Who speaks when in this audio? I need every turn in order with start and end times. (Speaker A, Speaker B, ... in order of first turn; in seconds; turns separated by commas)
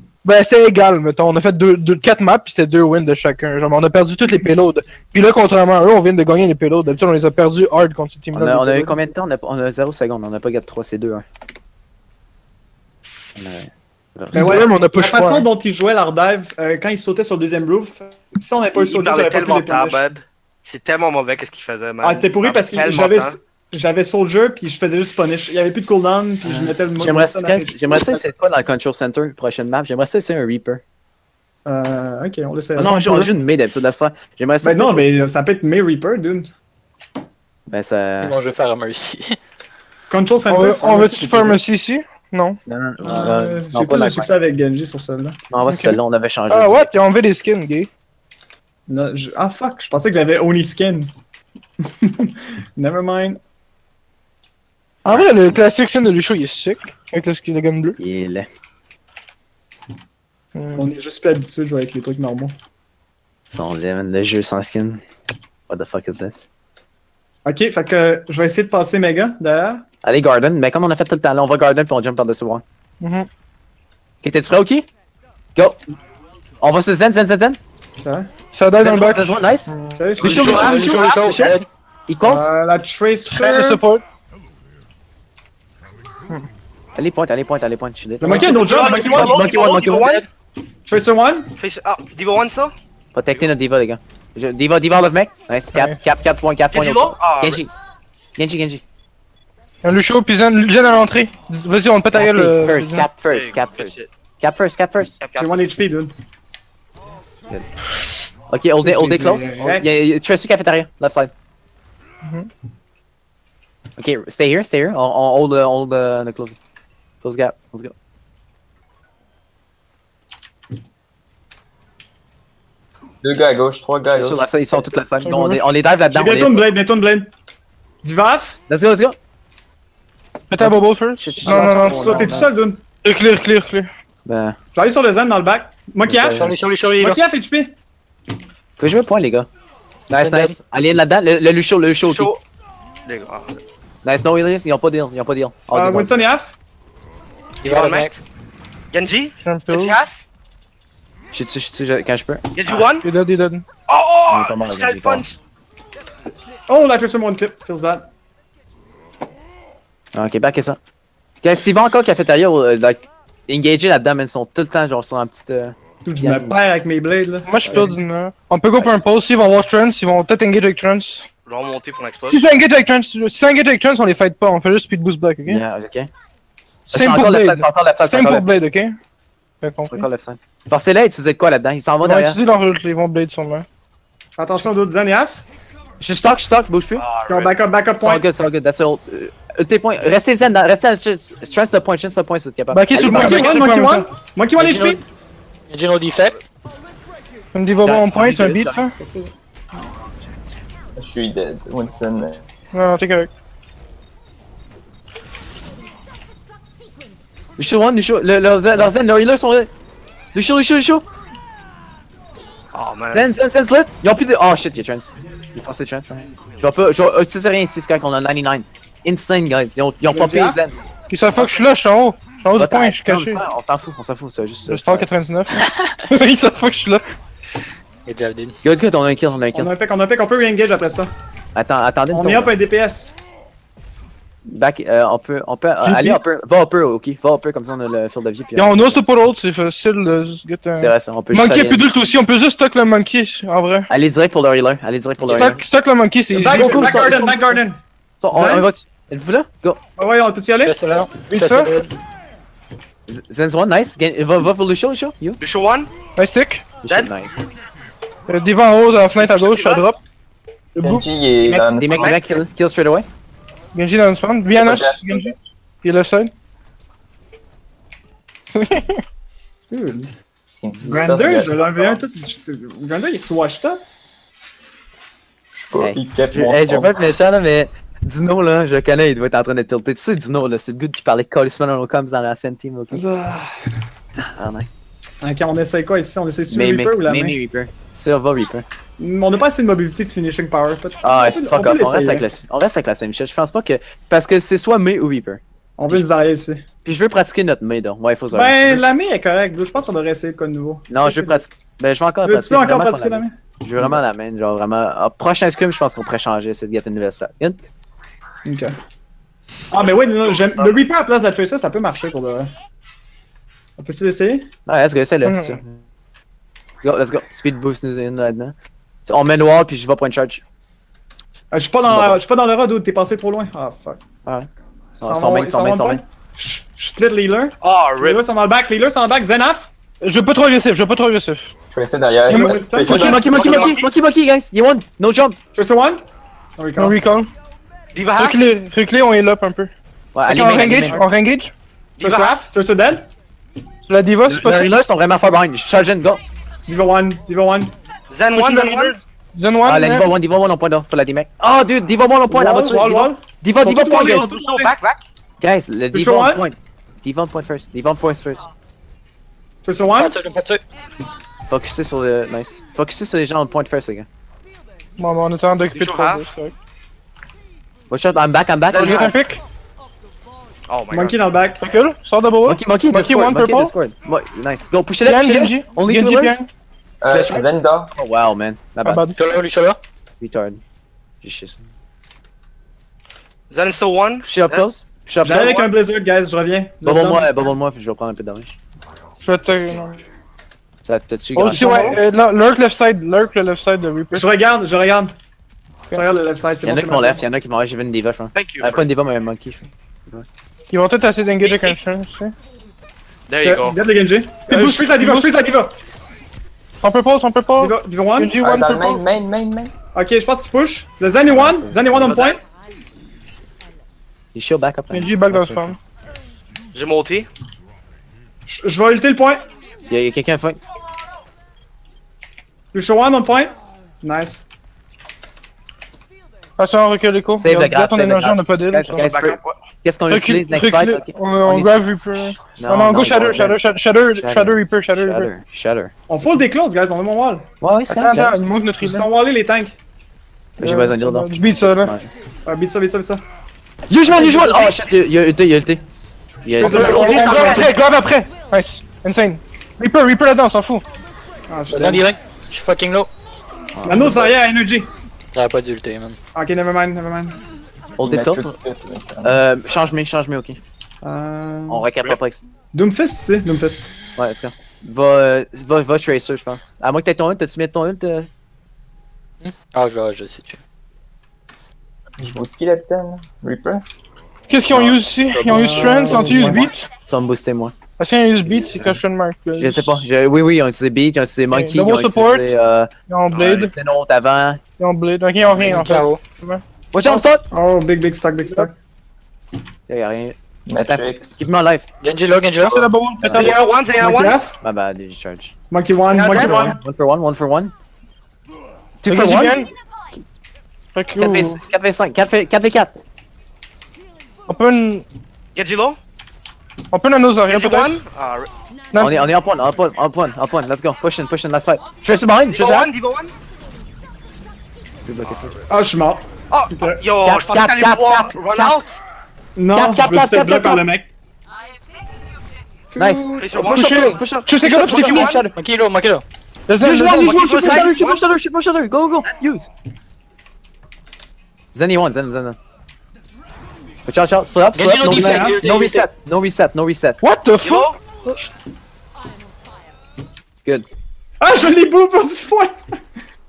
Speaker A: 0.2-8.9, Speaker B: 8.3-11.2, Speaker B: 13.4-14.7, Speaker A: 14.3-15.5, Speaker C: 14.3-20.1, Speaker D: 18.7-23.4, Speaker C: 22.0-28.2, Speaker B: 26.4-30.8, Speaker C: 31.6-33.3, Speaker B: 32.8-35.2, Speaker C: 34.6-36.5, Speaker B: 37.7-38.3, Speaker E: 38.2-39.4, Speaker C: 40.1-41.6, Speaker A: 40.5-42.6, Speaker B: 42.7-44.3, Speaker E: 43.0-43.4, Speaker C: 43.0-45.4, Speaker B: 45.5-46.9, Speaker A: 45.7-46.0, Speaker A: 46.5-47.9, Speaker C: 48.9-51.1, Speaker C: 52.0-53.4, Speaker A: 55.0-58.0, Speaker B: 58.0-58.5, Speaker A: 60.5-60.9, Speaker C: 60.8-62.6, Speaker B: 63.5-65.0, Speaker B: 65.7-66.5, Speaker C: 67.5-69.8, Speaker B: 70.0-72.6, Speaker A: 73.0-73.3, Speaker B: 74.2-74.9, Speaker B: 76.6-77.6, Speaker C: 78.0-78.3, Speaker A: 78.5-80.6, Speaker B: 78.8-81.0, Speaker C: 80.0-81.0, Speaker E: 80.3-81.7, Speaker D: 80.3-81.5, Speaker B: 82.1-82.5, Speaker C: 82.2-83.8, Speaker A: 83.3-84.0, Speaker B: 87.0-90.2, Speaker C: 88.2-89.5, Speaker D: 88.3-90.2, Speaker C: 90.9-91.5, Speaker D: 91.6-92.7, Speaker B: 93.1-97.7, Speaker D: 96.7-97.6, Speaker B: 98.4-98.8, Speaker A: 99.8-103.1, Speaker B: 102.1-105.2, Speaker D: 103.3-104.1, Speaker D: 105.2-105.6, Speaker C: 105.4-106.1, Speaker B: 108.5-111.3, Speaker C: 108.8-109.9, Speaker B: 114.0-116.6, Speaker B: 117.2-117.9, Speaker F: 123.2-124.4, Speaker B: 124.2-126.7, Speaker A: 125.2-125.7, Speaker C: 126.1-127.3, Speaker C: 128.0-128.6, Speaker B: 128.7-129.2, Speaker A: 130.5-132.4, Speaker B: 130.6-132.5, Speaker C: 131.4-132.8, Speaker A: 133.0-133.9, Speaker B: 134.3-134.6, Speaker C: 134.7-137.8, Speaker B: 136.1-136.5, Speaker E: 136.3-137.2, Speaker B: 138.8-139.5, Speaker B: 140.1-142.3, Speaker E: 140.2-140.6, Speaker D: 142.1-142.4, Speaker D: 143.1-143.6, Speaker B: 144.0-146.2, Speaker C: 145.7-146.6, Speaker E: 147.6-148.2, Speaker D: 147.7-148.1, Speaker D: 148.9-150.1, Speaker A: 149.4-150.0, Speaker B: 151.3-152.4, Speaker D: 152.5-153.1, Speaker A: 153.0-153.7, Speaker D: 153.9-155.4, Speaker B: 154.3-155.2, Speaker C: 156.7-158.1, Speaker B: 160.2-160.8, Speaker B: 161.4-166.6, Speaker C: 166.1-167.9, Speaker A: 167.5-171.3, Speaker D: 171.5-172.5, Speaker A: 172.2-175.6, Speaker B: 175.5-176.1, Speaker B: 176.9-178.5, Speaker A: 176.9-179.0, Speaker A: 179.6-180.1, Speaker B: 179.9-182.4, Speaker A: 182.0-183.7, Speaker C: 184.4-185.4, Speaker B: 186.0-187.1, Speaker D: 187.0-187.6, Speaker C: 187.3-188.2, Speaker B: 188.0-193.6, Speaker A: 192.7-194.1, Speaker C: 192.9-195.0, Speaker E: 194.6-195.0, Speaker E: 195.7-196.4, Speaker A: 197.5-198.9, Speaker B: 197.8-198.9, Speaker F: 201.0-202.4, Speaker A: 202.7-203.3, Speaker B: 207.6-209.7, Speaker B: 210.3-211.1, Speaker D: 212.7-213.3, Speaker B: 213.1-220.8, Speaker C: 220.1-220.6, Speaker A: 221.1-223.4, Speaker B: 221.3-221.6, Speaker B: 222.6-225.1, Speaker A: 224.7-227.0, Speaker E: 228.1-228.6, Speaker B: 228.6-229.7, Speaker C: 229.5-231.1, Speaker B: 231.6-232.5, Speaker C: 232.1-233.1, Speaker B: 234.5-239.0, Speaker A: 235.8-236.2, Speaker A: 238.6-243.9, Speaker B: 240.8-241.8, Speaker B: 243.9-245.6, Speaker A: 245.2-246.9, Speaker C: 246.3-247.8, Speaker B: 246.4-247.6, Speaker B: 248.2-249.8, Speaker C: 248.3-248.7, Speaker C: 250.0-250.8, Speaker E: 250.6-251.9, Speaker A: 251.3-251.7, Speaker B: 253.1-255.4, Speaker D: 255.4-255.9, Speaker A: 256.2-256.6, Speaker B: 256.8-257.4, Speaker A: 258.3-260.0, Speaker D: 259.2-259.9, Speaker A: 260.8-261.1, Speaker F: 260.8-262.3, Speaker B: 261.4-263.1, Speaker D: 261.9-262.3, Speaker A: 263.7-266.3, Speaker F: 264.5-265.3, Speaker A: 268.6-269.0, Speaker C: 269.7-270.1, Speaker F: 270.5-272.0, Speaker C: 270.9-273.8, Speaker F: 275.6-276.9, Speaker B: 275.8-283.0, Speaker C: 282.9-283.6, Speaker B: 284.2-284.7, Speaker C: 285.2-287.4, Speaker B: 286.5-288.6, Speaker C: 289.0-292.3, Speaker B: 291.0-296.0, Speaker C: 295.8-296.6, Speaker B: 296.9-298.8, Speaker C: 298.3-301.4, Speaker B: 300.9-307.6, Speaker C: 302.2-304.0, Speaker C: 308.4-308.7, Speaker C: 309.7-312.5, Speaker D: 309.8-310.8, Speaker C: 313.8-314.5, Speaker B: 314.7-315.7, Speaker A: 315.3-315.6, Speaker B: 316.8-318.6, Speaker B: 319.1-320.4, Speaker C: 321.5-324.0, Speaker B: 321.8-322.2, Speaker B: 324.2-326.0, Speaker C: 325.0-329.7, Speaker D: 327.6-328.2, Speaker A: 330.0-331.5, Speaker F: 331.7-333.7, Speaker C: 332.3-333.2, Speaker A: 332.3-333.2, Speaker B: 332.9-335.4, Speaker D: 333.2-333.9, Speaker C: 335.5-336.0, Speaker C: 336.6-337.0, Speaker A: 336.8-337.3, Speaker D: 337.9-338.4, Speaker A: 338.2-339.7, Speaker B: 340.1-341.0, Speaker A: 340.3-341.5, Speaker D: 342.0-342.4, Speaker C: 342.0-343.1, Speaker A: 343.9-344.7, Speaker B: 344.3-346.2, Speaker C: 346.7-347.7, Speaker D: 348.1-349.0, Speaker A: 348.3-350.1, Speaker B: 349.6-354.3, Speaker C: 352.3-354.7, Speaker D: 353.9-355.0, Speaker B: 355.4-358.4, Speaker C: 355.9-356.4, Speaker C: 359.6-360.2, Speaker E: 359.9-360.6, Speaker B: 361.5-364.1, Speaker A: 365.0-366.5, Speaker D: 365.7-366.2, Speaker B: 367.9-369.1, Speaker D: 368.7-369.1, Speaker A: 368.8-369.4, Speaker D: 370.7-371.2, Speaker C: 370.9-371.6, Speaker A: 371.6-373.7, Speaker B: 372.4-376.4, Speaker A: 375.1-376.5, Speaker F: 377.0-377.9, Speaker B: 377.1-379.1, Speaker A: 378.8-379.2, Speaker E: 379.1-379.8, Speaker B: 380.2-380.6, Speaker B: 381.2-381.6, Speaker D: 383.5-384.6, Speaker B: 384.2-385.5, Speaker C: 385.2-387.3, Speaker D: 385.3-385.7, Speaker B: 386.8-388.6, Speaker A: 389.2-390.0, Speaker B: 390.9-392.0, Speaker A: 391.4-394.3, Speaker C: 391.5-392.0, Speaker C: 394.1-395.1, Speaker C: 395.9-397.2, Speaker B: 396.6-400.3, Speaker D: 398.4-398.8, Speaker A: 400.7-402.3, Speaker D: 401.4-401.8, Speaker D: 403.3-403.8, Speaker C: 403.4-405.8, Speaker A: 404.5-405.3, Speaker A: 406.8-409.0, Speaker C: 407.6-408.4, Speaker F: 408.4-409.7, Speaker C: 409.9-412.4, Speaker B: 411.3-412.1, Speaker D: 412.0-412.4, Speaker B: 414.3-415.7, Speaker A: 414.9-415.8, Speaker D: 416.7-417.3, Speaker C: 418.5-419.4, Speaker B: 419.9-420.6, Speaker C: 422.7-424.5, Speaker A: 426.6-429.0, Speaker B: 427.4-431.8, Speaker D: 429.1-429.5, Speaker A: 430.1-435.3, Speaker B: 432.5-433.6, Speaker B: 434.2-435.9, Speaker C: 436.1-437.5, Speaker B: 437.6-438.3, Speaker A: 437.9-439.1, Speaker C: 438.8-439.8, Speaker A: 440.6-441.9, Speaker B: 440.6-442.1, Speaker C: 442.5-443.2, Speaker B: 443.9-445.8, Speaker C: 444.3-444.7, Speaker B: 446.4-447.7, Speaker C: 446.6-447.7, Speaker A: 446.6-450.8, Speaker C: 451.5-452.1, Speaker E: 451.7-453.1, Speaker B: 453.8-454.3, Speaker C: 453.9-454.9, Speaker E: 455.3-456.2, Speaker C: 456.4-457.4, Speaker B: 458.0-458.6, Speaker F: 458.0-459.4, Speaker B: 459.2-460.6, Speaker C: 461.0-461.9, Speaker B: 461.7-462.4, Speaker C: 462.7-463.9, Speaker B: 464.2-468.3, Speaker E: 469.4-470.6, Speaker F: 472.2-473.9, Speaker A: 474.5-476.9, Speaker B: 474.7-475.0, Speaker C: 475.4-476.7, Speaker B: 477.1-477.8, Speaker A: 478.0-480.1, Speaker B: 479.6-482.9, Speaker A: 481.5-482.5, Speaker A: 483.1-483.7, Speaker D: 483.3-483.6, Speaker B: 483.4-484.6, Speaker A: 484.8-486.6, Speaker E: 485.6-486.2, Speaker B: 486.9-487.5, Speaker C: 487.1-488.7, Speaker B: 489.9-491.9, Speaker F: 490.7-491.4, Speaker E: 492.0-492.9, Speaker A: 492.6-493.5, Speaker B: 493.2-493.6, Speaker D: 493.4-494.4, Speaker C: 493.4-494.5, Speaker B: 494.6-495.5, Speaker C: 495.7-496.8, Speaker D: 496.1-496.8, Speaker B: 496.4-497.7, Speaker B: 499.0-499.7, Speaker A: 499.1-499.7, Speaker A: 500.9-501.6, Speaker B: 501.2-503.0, Speaker A: 504.5-505.1, Speaker D: 505.6-506.0, Speaker A: 506.9-508.0, Speaker D: 507.5-508.5, Speaker A: 508.9-509.2, Speaker B: 509.0-512.9, Speaker D: 512.5-513.3, Speaker B: 515.1-515.5, Speaker C: 515.7-517.0, Speaker D: 516.5-518.9, Speaker B: 517.2-518.8, Speaker C: 519.6-521.1, Speaker B: 519.7-520.8, Speaker C: 522.9-523.7, Speaker B: 523.0-525.5, Speaker D: 523.4-524.1, Speaker A: 523.6-525.4, Speaker D: 524.7-525.5, Speaker E: 525.5-526.2, Speaker A: 526.7-527.9, Speaker B: 526.8-529.7, Speaker D: 527.3-528.3, Speaker B: 531.7-532.6, Speaker B: 534.1-537.2, Speaker E: 534.7-536.1, Speaker C: 535.0-535.6, Speaker A: 537.2-537.9, Speaker D: 537.6-538.0, Speaker C: 541.4-542.7